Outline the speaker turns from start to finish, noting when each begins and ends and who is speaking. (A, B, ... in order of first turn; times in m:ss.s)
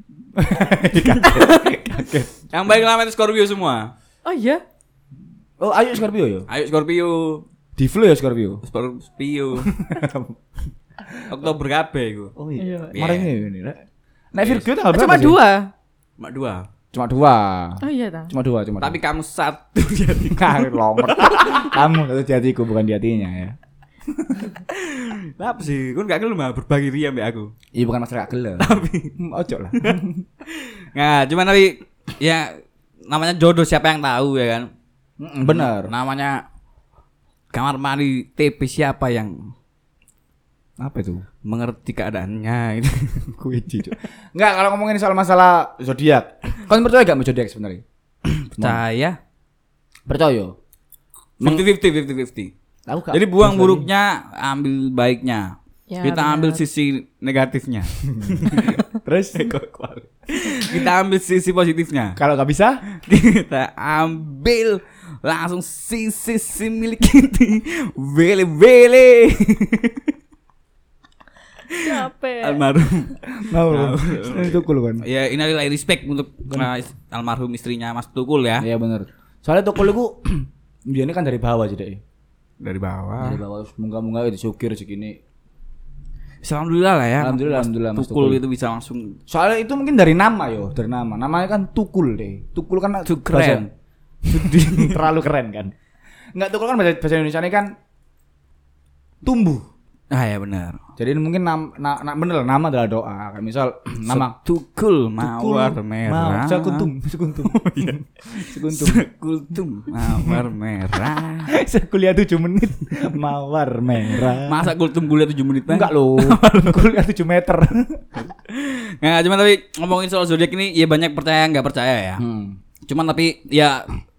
0:00.4-0:02.3 A
0:01.0-0:01.5 B
0:01.3-0:01.6 C
0:02.5-0:03.9 B
0:04.2-0:04.6 C
0:05.6-0:06.5 A
0:06.5-0:07.4 B
0:07.8-0:08.6 A
0:08.6-0:09.7 B
0:09.7-0:10.4 A
0:11.3-0:12.4 B
0:12.4-0:13.8 A
0:12.6-0:13.0 C
0:12.9-0:13.3 B
0:14.3-0:15.4 A
0:14.9-0:15.7 C
0:16.2-0:16.7 B
0:16.9-0:19.0 A
0:17.8-0:18.3 C
0:18.8-0:21.8 B
0:20.3-0:23.6 A
0:24.1-0:24.5 A
0:24.7-0:27.5 B
0:27.7-0:30.2 A
0:28.6-0:29.1 B
0:29.8-0:32.5 B
0:33.1-0:34.7 B
0:35.2-0:35.9 A
0:35.5-0:36.4 B
0:37.5-0:39.5 B
0:40.8-0:41.2 A
0:41.4-0:43.3 B
0:43.3-0:47.8 A
0:48.2-0:49.2 B
0:50.1-0:50.6 A
0:51.4-0:51.7 A
0:51.4-0:52.5 B
0:52.9-0:53.9 A
0:53.1-1:02.2 B
0:55.9-0:56.6 C
0:58.1-0:59.6 A
1:02.2-1:02.8 A
1:03.0-1:10.1 B
1:11.7-1:18.7 B
1:11.8-1:12.6 C
1:13.3-1:15.0 A
1:18.6-1:22.0 A
1:22.6-1:23.4 B
1:23.2-1:25.2 A
1:26.4-1:29.2 B
1:27.2-1:28.4 A
1:29.3-1:33.6 A
1:33.0-1:33.7 B
1:34.3-1:35.0 B
1:34.3-1:35.7 A
1:36.4-1:37.7 A
1:39.2-1:39.7 A
1:40.1-1:40.8 B
1:41.0-1:44.4 A
1:44.1-1:46.9 B
1:45.2-1:49.0 A
1:47.4-1:51.5 B
1:50.0-1:50.4 A
1:51.5-1:54.7 A
1:54.4-1:56.9 B
1:55.7-1:58.0 A
1:58.2-2:02.2 B
2:02.2-2:02.6 A
2:02.9-2:03.9 B